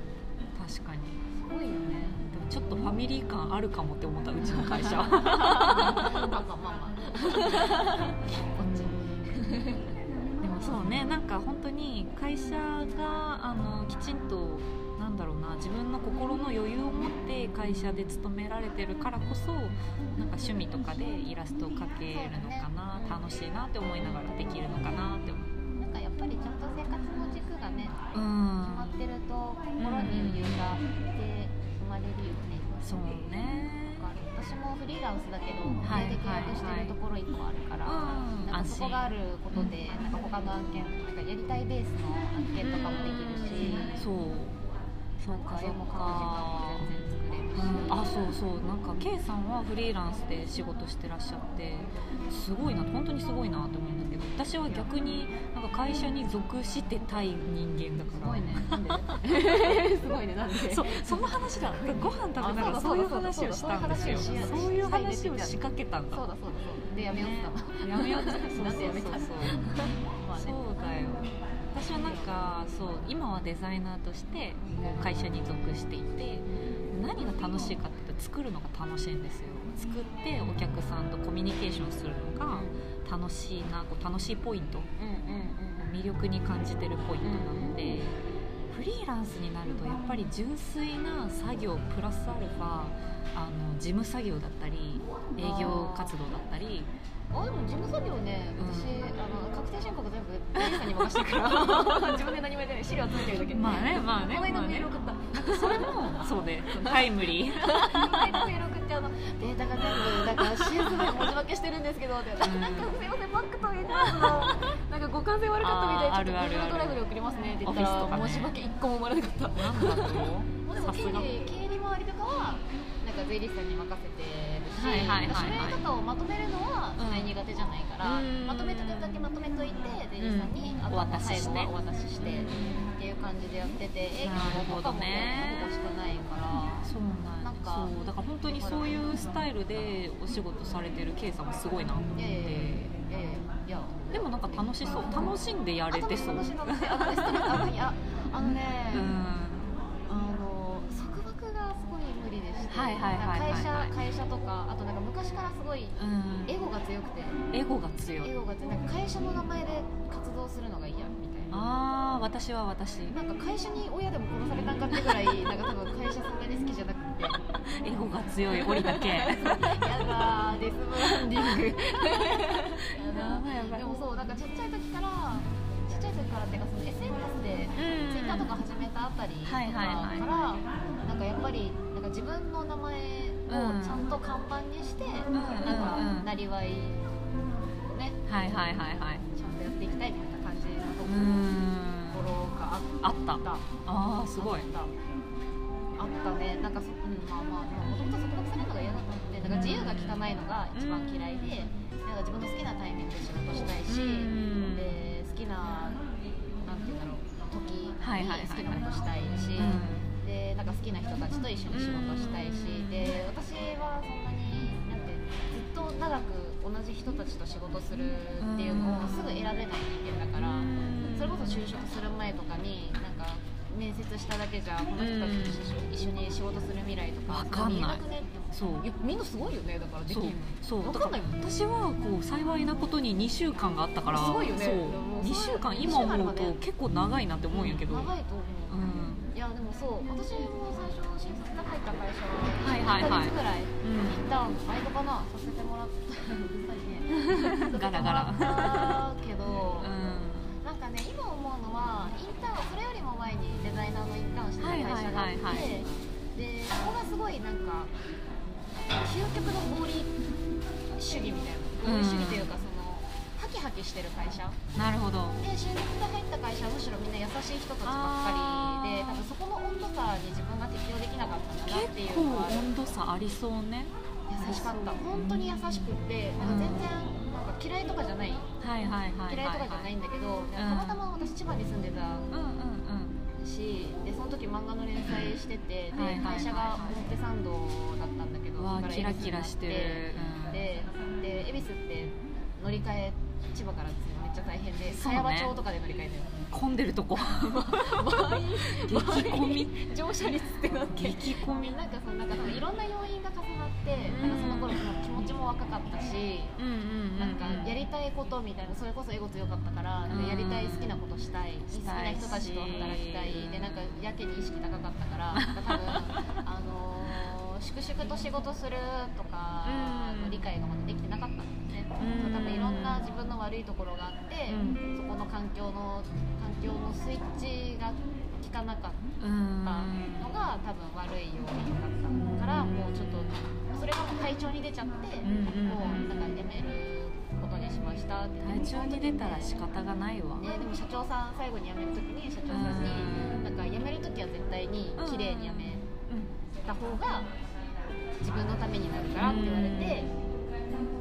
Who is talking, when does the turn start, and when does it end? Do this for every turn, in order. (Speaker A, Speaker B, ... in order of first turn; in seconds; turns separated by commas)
Speaker A: 0.5-1.2, Speaker B: 1.3-2.2, Speaker A: 2.0-6.2, Speaker B: 4.4-9.9, Speaker A: 7.5-7.8, Speaker A: 8.6-9.3, Speaker A: 10.4-25.5, Speaker B: 22.1-23.2, Speaker B: 25.8-28.0, Speaker A: 28.1-29.0, Speaker B: 28.6-33.0, Speaker A: 29.8-30.7, Speaker A: 32.8-34.0, Speaker B: 33.9-44.0, Speaker A: 35.8-37.0, Speaker A: 37.8-39.7, Speaker A: 42.6-44.6, Speaker A: 45.2-46.9, Speaker B: 45.2-48.1, Speaker A: 47.5-58.8, Speaker B: 58.1-70.6, Speaker A: 60.6-66.2, Speaker A: 67.0-84.9, Speaker B: 71.9-72.5, Speaker B: 74.6-75.0, Speaker B: 76.5-76.9, Speaker B: 82.5-82.8, Speaker B: 85.0-85.9, Speaker A: 85.8-96.9, Speaker B: 87.2-88.0, Speaker B: 95.4-96.2, Speaker B: 97.3-136.9, Speaker A: 98.6-99.0, Speaker A: 103.5-104.9, Speaker A: 105.4-108.5, Speaker A: 110.4-111.1, Speaker A: 112.4-113.0, Speaker A: 114.0-114.6, Speaker A: 115.6-117.0, Speaker A: 117.6-118.5, Speaker A: 119.5-121.4, Speaker A: 124.8-125.8, Speaker A: 127.0-127.3, Speaker A: 128.0-129.2, Speaker A: 130.2-132.6, Speaker A: 134.2-135.7, Speaker A: 136.8-142.9, Speaker B: 137.4-137.9, Speaker B: 138.5-139.0, Speaker B: 142.2-145.3, Speaker A: 144.1-147.7, Speaker B: 145.9-149.1, Speaker A: 148.9-149.8, Speaker B: 150.1-157.4, Speaker A: 152.7-153.9, Speaker A: 155.9-156.6, Speaker A: 157.5-158.3, Speaker B: 158.2-161.6, Speaker A: 161.5-163.2, Speaker B: 163.1-167.4, Speaker A: 167.7-170.3, Speaker B: 168.5-187.1, Speaker A: 171.1-171.7, Speaker A: 173.0-174.0, Speaker A: 177.8-178.6, Speaker A: 179.4-180.3, Speaker A: 183.5-184.1, Speaker A: 185.3-186.3, Speaker B: 187.9-188.2, Speaker A: 188.2-189.3, Speaker B: 189.3-193.7, Speaker A: 191.0-192.3, Speaker A: 193.0-194.7, Speaker B: 194.3-194.9, Speaker B: 196.0-206.0, Speaker A: 199.4-201.4, Speaker A: 203.9-205.0, Speaker B: 206.6-231.5, Speaker A: 208.0-208.9, Speaker A: 209.5-210.1, Speaker A: 211.7-213.1, Speaker A: 218.4-219.4, Speaker A: 220.4-221.6, Speaker A: 225.0-225.7, Speaker A: 227.3-228.9, Speaker A: 230.1-238.1, Speaker B: 234.1-236.6, Speaker B: 237.5-238.8, Speaker A: 238.7-239.3, Speaker B: 239.3-249.9, Speaker A: 242.6-244.2, Speaker A: 247.2-249.0, Speaker A: 249.8-250.6, Speaker B: 250.6-257.9, Speaker A: 254.6-255.7, Speaker B: 258.9-260.2, Speaker B: 260.9-264.6, Speaker A: 261.8-262.6, Speaker A: 264.7-265.4, Speaker B: 265.4-272.8, Speaker A: 267.8-269.3, Speaker A: 271.6-276.9, Speaker B: 274.3-278.5, Speaker A: 278.6-279.9, Speaker B: 279.3-282.3, Speaker A: 280.6-281.1, Speaker A: 282.3-283.2, Speaker B: 283.3-296.4, Speaker A: 285.1-285.3, Speaker A: 285.9-287.0, Speaker A: 288.6-290.6, Speaker A: 294.9-295.6, Speaker A: 296.5-299.8, Speaker B: 297.2-306.6, Speaker A: 300.9-301.8, Speaker A: 304.0-304.8, Speaker A: 306.6-307.8, Speaker B: 307.2-329.0, Speaker A: 310.1-311.0, Speaker A: 311.7-313.9, Speaker A: 315.3-316.1, Speaker A: 319.6-320.4, Speaker A: 322.0-323.1, Speaker A: 324.5-324.8, Speaker A: 329.2-330.3, Speaker B: 329.6-339.7, Speaker A: 332.1-333.4, Speaker A: 335.2-336.2, Speaker A: 338.4-340.4, Speaker B: 340.3-345.9, Speaker A: 342.5-343.4, Speaker A: 344.9-346.3, Speaker B: 346.6-347.3, Speaker B: 348.2-350.1, Speaker A: 349.2-350.1